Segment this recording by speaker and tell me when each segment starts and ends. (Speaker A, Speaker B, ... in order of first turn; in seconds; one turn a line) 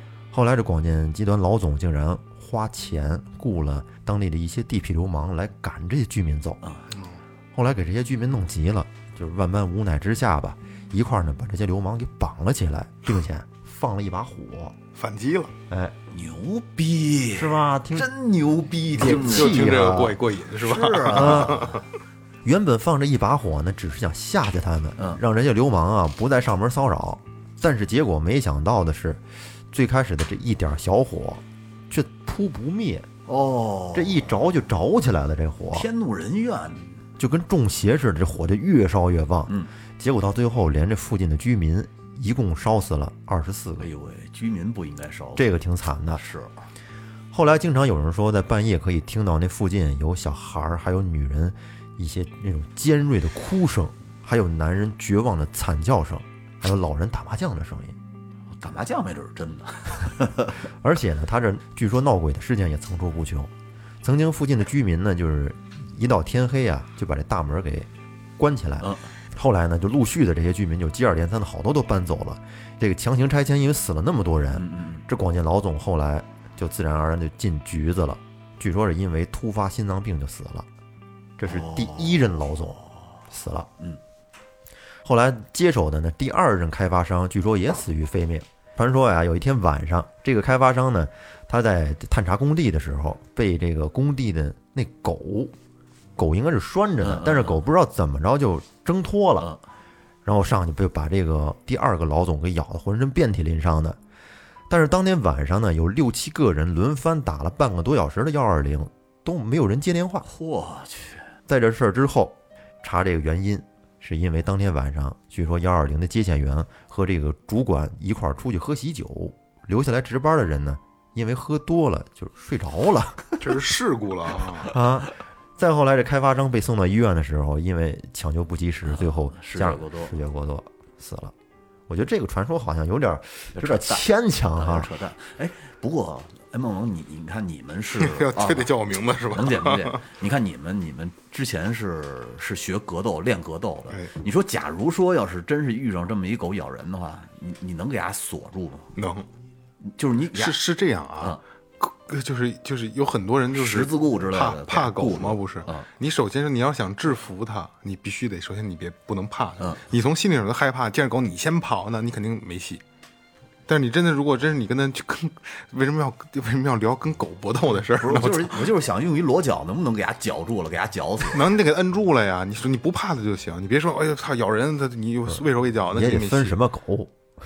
Speaker A: 0.3-6.6
Speaker B: 6.6-6.9
Speaker C: 6.9-7.2
Speaker A: 7.5-14.8
Speaker C: 14.9-15.5
Speaker A: 15.7-15.9
Speaker B: 16.1-19.8
Speaker A: 17.3-18.1
Speaker A: 18.9-20.2
Speaker C: 19.0-21.8
Speaker B: 20.6-21.8
Speaker A: 21.1-21.7
Speaker A: 22.4-33.1
Speaker B: 33.3-34.3
Speaker A: 33.9-35.9
Speaker B: 35.7-37.0
Speaker A: 37.2-43.9
Speaker B: 43.8-45.5
Speaker A: 45.4-46.2
Speaker B: 46.1-46.5
Speaker A: 47.3-58.0
Speaker B: 58.5-60.6
Speaker A: 60.7-63.5
Speaker A: 64.0-80.7
Speaker B: 68.8-69.0
Speaker B: 74.5-75.0
Speaker A: 81.4-82.8
Speaker B: 81.5-83.0
Speaker A: 83.3-83.7
Speaker A: 85.0-95.5
Speaker A: 96.2-99.5
Speaker B: 97.0-97.6
Speaker A: 100.2-104.0
Speaker A: 104.7-110.3
Speaker B: 110.2-111.3
Speaker A: 111.5-123.4
Speaker C: 123.4-124.7
Speaker A: 124.6-131.3
Speaker B: 128.8-130.2
Speaker A: 131.9-134.9
Speaker B: 133.5-138.7
Speaker C: 138.0-140.0
Speaker B: 139.3-148.9
Speaker C: 148.9-149.3
Speaker B: 149.8-150.6
Speaker C: 150.3-162.8
Speaker B: 153.5-155.9
Speaker C: 163.7-168.7
Speaker B: 168.0-171.5
Speaker C: 171.3-176.6
Speaker A: 175.9-177.1